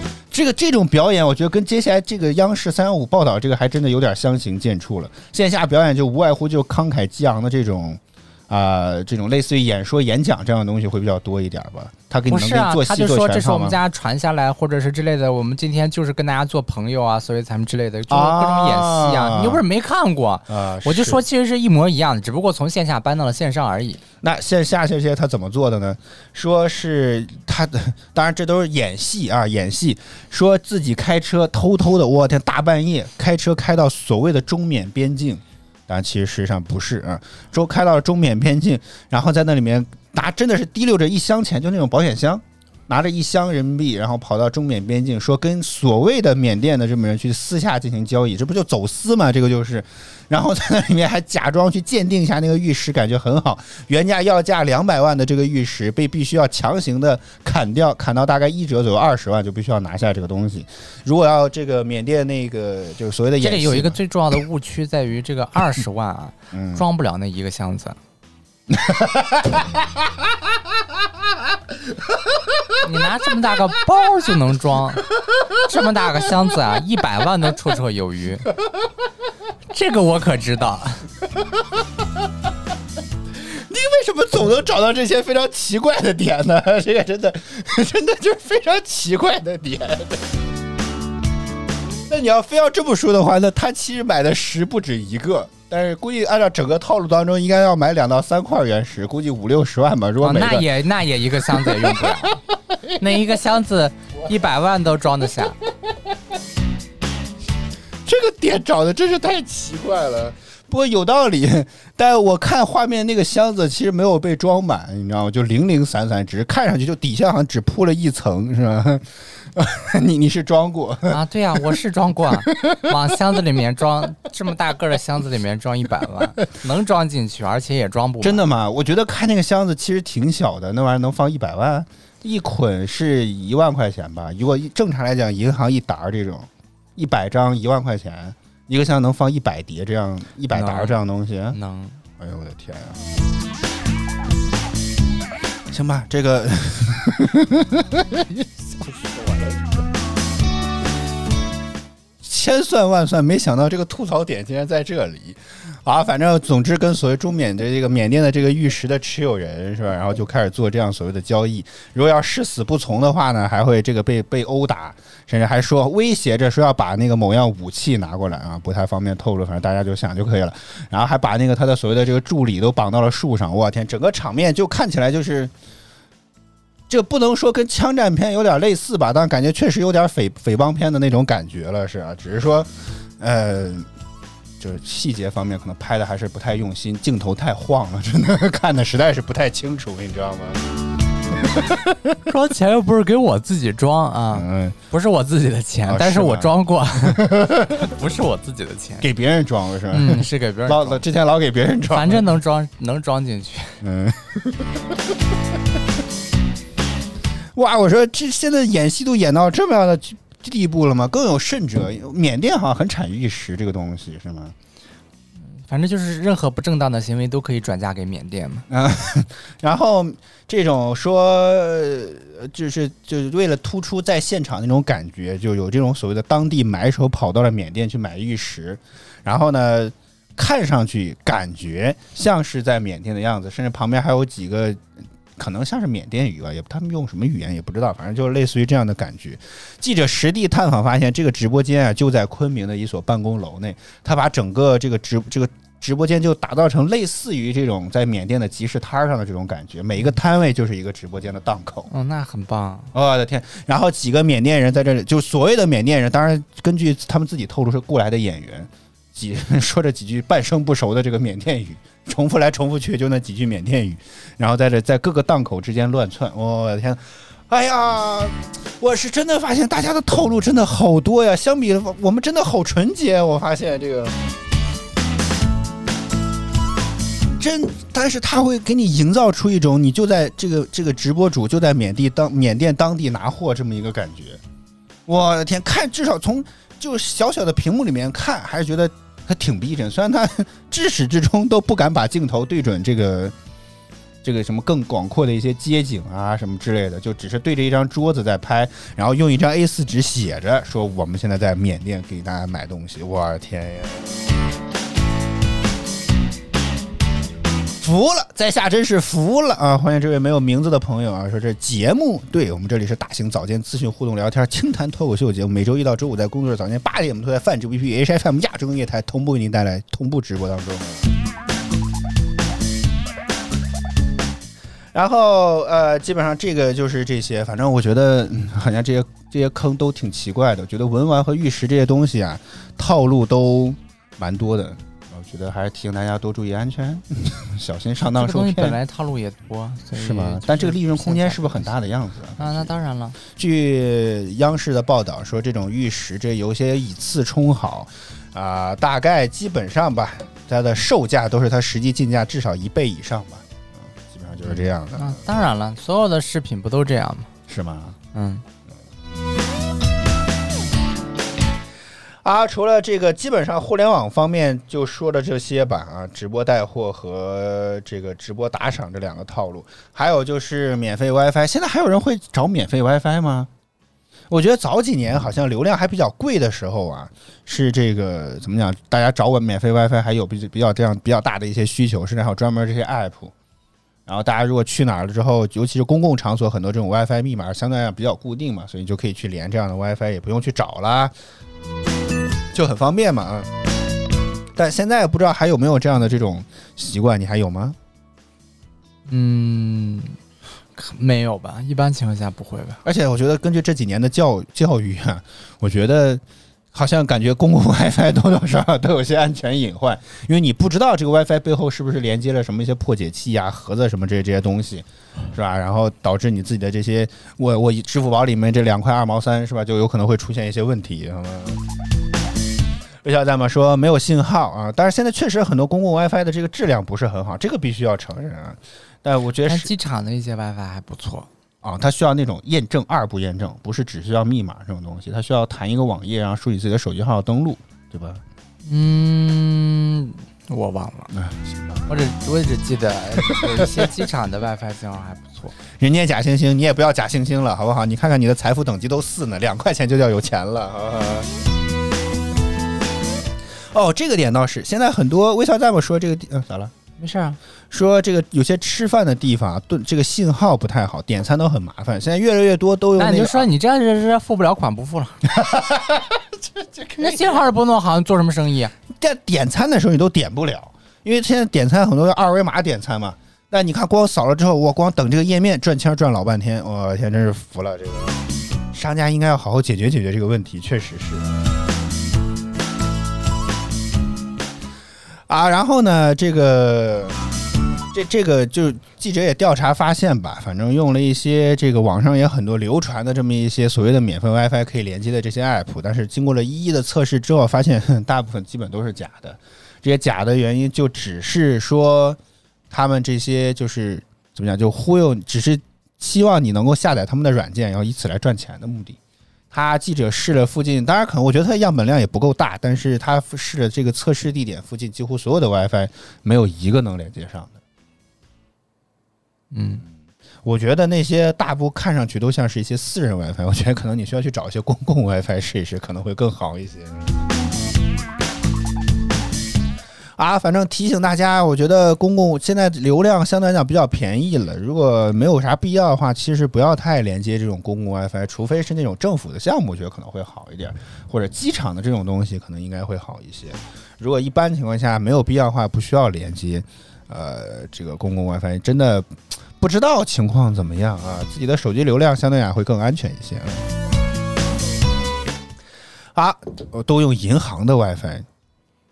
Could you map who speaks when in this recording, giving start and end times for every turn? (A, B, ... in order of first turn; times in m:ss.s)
0:00.3-0:13.8 A
0:12.3-0:24.0 B
0:18.1-0:19.6 A
0:20.5-0:21.2 A
0:24.2-1:04.0 A
1:03.4-1:08.0 B
1:06.5-1:06.8 A
1:08.7-1:10.3 A
1:12.8-1:15.1 B
1:15.2-1:15.5 A
1:15.6-1:18.5 B
1:19.7-1:21.0 B
1:23.4-1:30.2 A
1:32.1-1:40.7 A
1:40.2-1:45.6 B
1:41.5-1:42.3 A
1:48.0-2:01.6 A
2:01.1-2:08.4 B
2:02.4-2:02.9 A
2:08.2-2:21.6 A
2:20.5-2:21.0 B
2:21.5-2:22.0 B
2:22.2-2:23.0 A
2:25.7-2:29.7 A
2:32.2-2:55.5 A
2:56.9-3:03.9 A
3:04.6-3:10.6 A
3:11.4-3:12.2 A
3:12.2-3:19.1 B
3:14.3-3:14.8 A
3:15.9-3:17.9 A
3:19.0-3:22.3 A
3:19.9-3:21.0 B
3:21.9-3:23.8 B
3:23.8-3:24.8 A
3:27.5-3:34.5 A
3:35.5-3:38.6 B
3:38.7-3:54.8 A
3:55.4-4:11.9 A
4:11.9-4:12.9 B
4:12.9-4:34.1 A
4:37.4-4:44.4 A
4:45.1-4:53.3 A
4:54.2-5:04.1 A
5:07.8-5:21.1 A
5:24.9-5:38.8 A
5:38.1-5:41.7 B
5:40.0-5:55.2 A
5:42.4-5:43.2 B
5:54.4-5:57.3 B
5:57.5-5:58.0 A
5:58.1-5:58.4 B
6:02.2-6:13.5 A
6:14.3-6:23.3 A
6:24.1-6:31.1 A
6:32.5-6:33.5 A
6:34.5-6:37.8 A
6:39.1-6:40.2 B
6:40.8-6:42.8 B
6:42.8-7:01.6 A
7:03.0-7:09.7 A
7:09.5-7:11.3 B
7:11.6-7:18.2 A
7:18.6-7:21.1 B
7:21.1-7:21.9 A
7:21.9-7:25.5 B
7:23.2-7:23.9 A
7:25.8-7:31.3 A
7:33.7-7:36.7 A
7:37.0-7:37.4 B
7:37.7-7:43.5 A
7:43.0-7:45.2 B
7:45.2-7:47.5 A
7:47.0-7:48.7 B
7:48.9-7:58.2 A
7:58.7-8:01.4 A
8:05.3-8:07.2 A
8:07.9-8:22.2 A
8:22.7-8:29.0 A
8:29.5-8:37.6 A
8:39.5-8:39.8 B
8:40.4-8:47.1 A
8:50.2-9:13.6 A
9:16.1-9:18.2 A